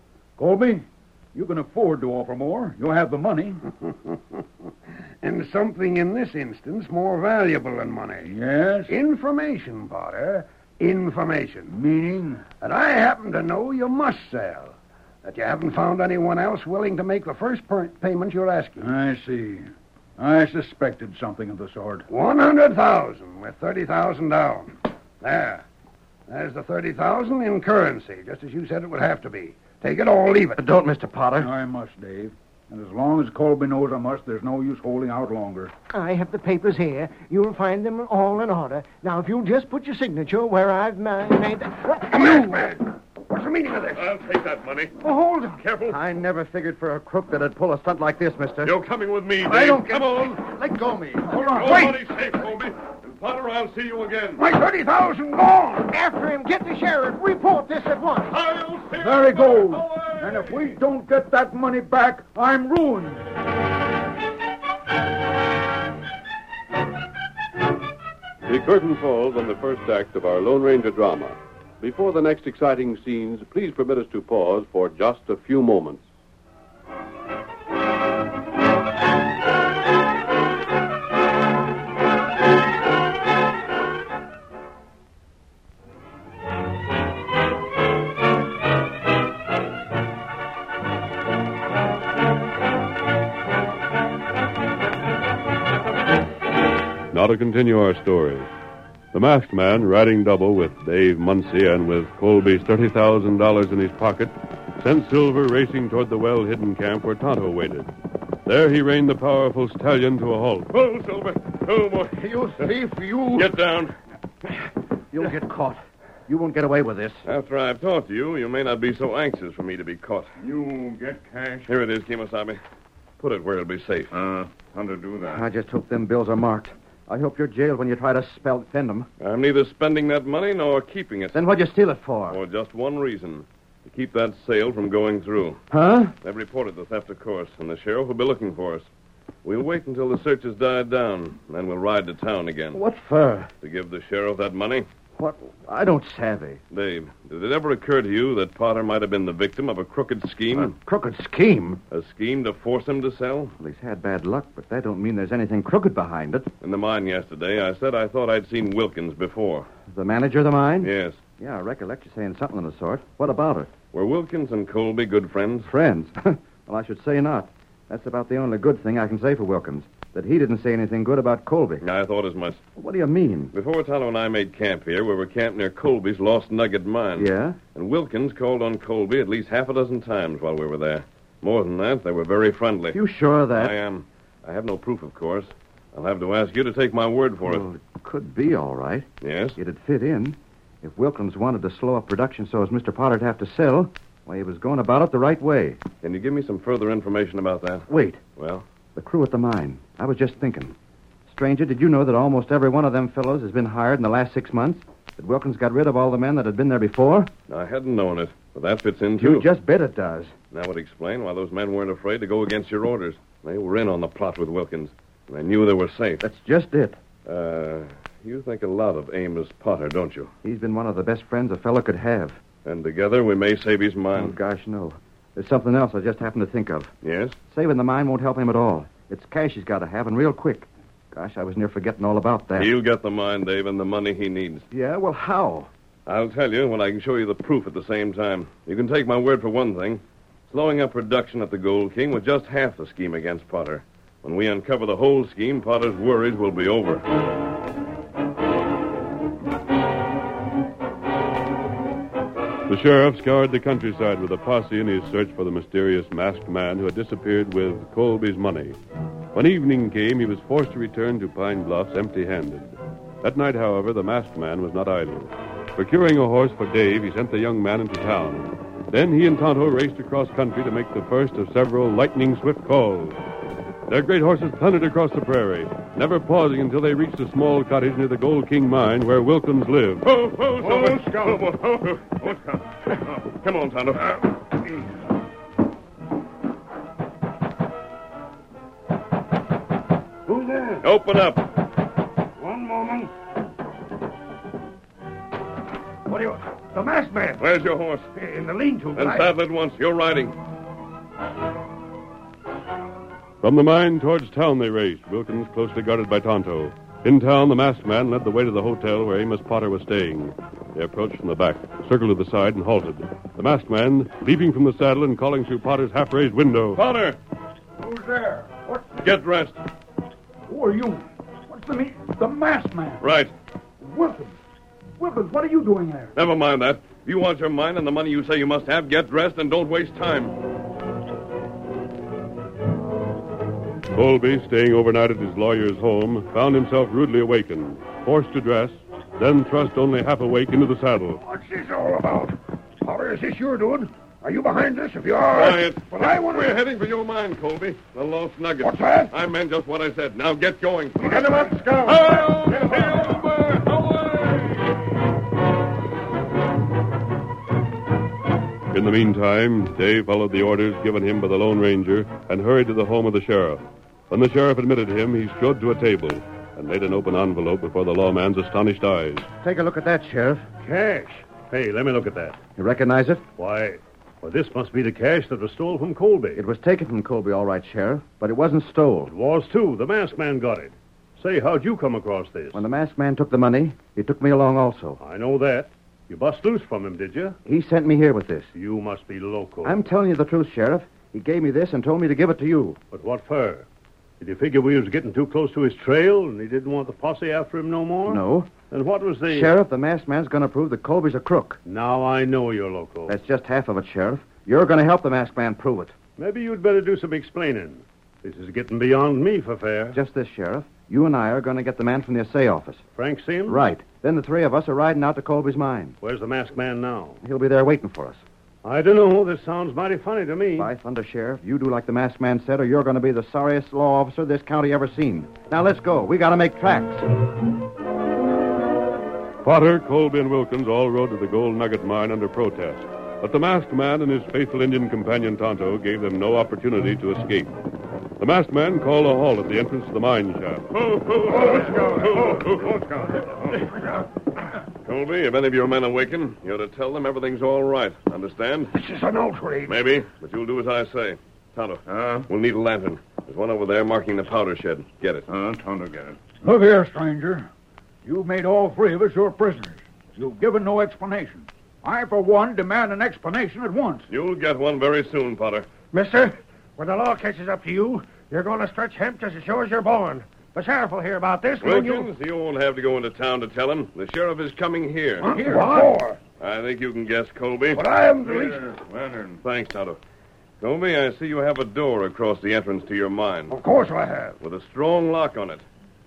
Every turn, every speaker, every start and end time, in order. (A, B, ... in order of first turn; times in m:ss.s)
0:00.4-0:03.6 A
0:05.2-0:08.3 B
0:08.2-0:08.9 A
0:08.9-0:11.7 B
0:11.7-0:12.5 A
0:12.6-0:18.9 B
0:18.8-0:22.1 A
0:22.1-0:25.6 B
0:26.3-0:30.6 B
0:30.6-0:31.5 C
0:31.4-0:35.7 A
0:35.9-0:42.7 D
0:42.1-0:44.0 B
0:44.0-0:44.9 E
0:45.0-0:45.6 D
0:45.6-0:46.0 E
0:45.8-0:48.8 C
0:48.6-0:50.4 E
0:49.4-0:51.6 C
0:51.3-0:51.8 A
0:51.4-0:54.4 E
0:54.4-0:55.9 B
0:55.9-0:58.4 D
0:58.3-1:00.7 E
0:59.0-1:03.2 A
1:08.5-1:16.0 F
1:37.1-1:38.5 F
1:39.1-1:47.9 F
1:48.5-1:50.7 F
1:50.7-1:52.8 E
1:52.2-1:53.5 C
1:53.3-1:53.9 E
1:55.1-1:57.3 C
1:57.2-2:00.3 E
2:00.4-2:01.7 G
2:01.7-2:02.6 E
2:03.2-2:04.1 E
2:04.1-2:05.5 G
2:05.2-2:09.1 C
2:09.2-2:11.4 E
2:11.3-2:12.4 C
2:12.3-2:15.6 E
2:15.7-2:16.1 C
2:16.2-2:18.9 E
2:19.4-2:22.8 E
2:22.7-2:23.5 C
2:23.6-2:24.9 E
2:25.2-2:26.6 C
2:26.7-2:30.7 E
2:30.5-2:31.8 C
2:31.9-2:33.6 E
2:33.6-2:36.5 C
2:36.6-2:39.7 E
2:39.9-2:43.7 C
2:40.8-2:41.2 E
2:43.9-2:45.7 E
2:45.6-2:51.8 C
2:51.8-2:52.6 E
2:52.8-2:53.5 C
2:53.5-3:03.0 E
2:57.2-2:57.6 C
3:02.9-3:03.8 C
3:03.5-3:07.6 E
3:07.4-3:15.8 C
3:09.2-3:09.6 E
3:16.0-3:18.7 E
3:17.9-3:18.2 C
3:19.0-3:20.8 C
3:21.3-3:27.3 C
3:27.5-3:29.5 E
3:29.2-3:30.4 C
3:30.5-3:36.2 E
3:36.2-3:37.0 C
3:37.2-3:40.3 E
3:40.4-3:42.4 C
3:42.6-3:44.4 E
3:44.1-3:46.9 C
3:47.0-3:47.4 E
3:47.5-3:52.7 C
3:52.6-3:54.7 E
3:54.7-3:55.7 C
3:56.1-4:07.0 E
4:12.7-4:18.8 F
4:19.3-4:33.2 F
4:33.9-4:40.1 F
4:40.0-4:42.3 E
4:40.6-4:41.6 G
4:42.1-4:42.6 G
4:42.9-4:44.4 E
4:50.8-4:51.5 E
4:52.4-4:53.0 H
4:56.1-4:57.4 H
4:57.4-4:58.1 E
4:58.2-4:59.3 H
4:59.0-5:00.4 E
5:03.4-5:16.8 F
5:16.8-5:17.2 E
5:17.8-5:19.0 A
5:19.0-5:19.6 E
5:20.5-5:23.1 A
5:23.0-5:23.3 E
5:23.8-5:24.4 A
5:25.0-5:26.2 A
5:26.2-5:30.4 E
5:34.0-5:41.2 F
5:41.2-5:46.6 B
5:45.3-5:54.6 E
5:48.6-5:49.1 B
5:51.0-5:51.8 B
5:51.4-5:52.8 G
5:58.7-6:09.3 F
6:09.4-6:10.5 C
6:10.6-6:12.4 I
6:12.6-6:13.2 C
6:13.4-6:16.4 I
6:16.4-6:19.1 C
6:19.1-6:22.6 I
6:22.5-6:25.0 C
6:25.0-6:27.4 I
6:27.4-6:28.5 C
6:28.5-6:29.8 I
6:29.6-6:32.8 C
6:32.9-6:33.7 I
6:34.2-6:39.5 I
6:38.0-6:38.5 C
6:39.3-6:41.6 C
6:41.7-6:43.1 I
6:43.1-6:46.0 C
6:46.2-6:50.0 I
6:49.9-6:52.8 C
6:53.0-6:53.6 I
6:53.5-6:56.0 C
6:56.0-6:57.2 I
6:57.2-6:58.2 C
6:58.6-7:00.7 I
7:00.6-7:07.1 C
7:09.4-7:17.5 F
7:18.2-7:20.7 F
7:20.7-7:22.7 E
7:21.2-7:23.6 G
7:24.8-7:28.7 E
7:28.7-7:29.8 B
7:29.7-7:35.3 E
7:31.9-7:32.3 G
7:35.3-7:36.2 G
7:36.4-7:37.5 A
7:38.0-7:44.1 A
7:44.1-7:45.7 E
7:45.9-7:52.1 H
7:51.6-7:55.4 E
7:55.2-7:56.2 B
7:55.4-7:55.8 H
7:55.4-7:55.8 A
7:56.4-7:57.8 E
7:57.7-7:58.7 B
7:58.2-7:59.4 G
7:59.4-8:00.0 E
8:00.6-8:03.6 E
8:03.5-8:04.4 B
8:04.4-8:05.6 E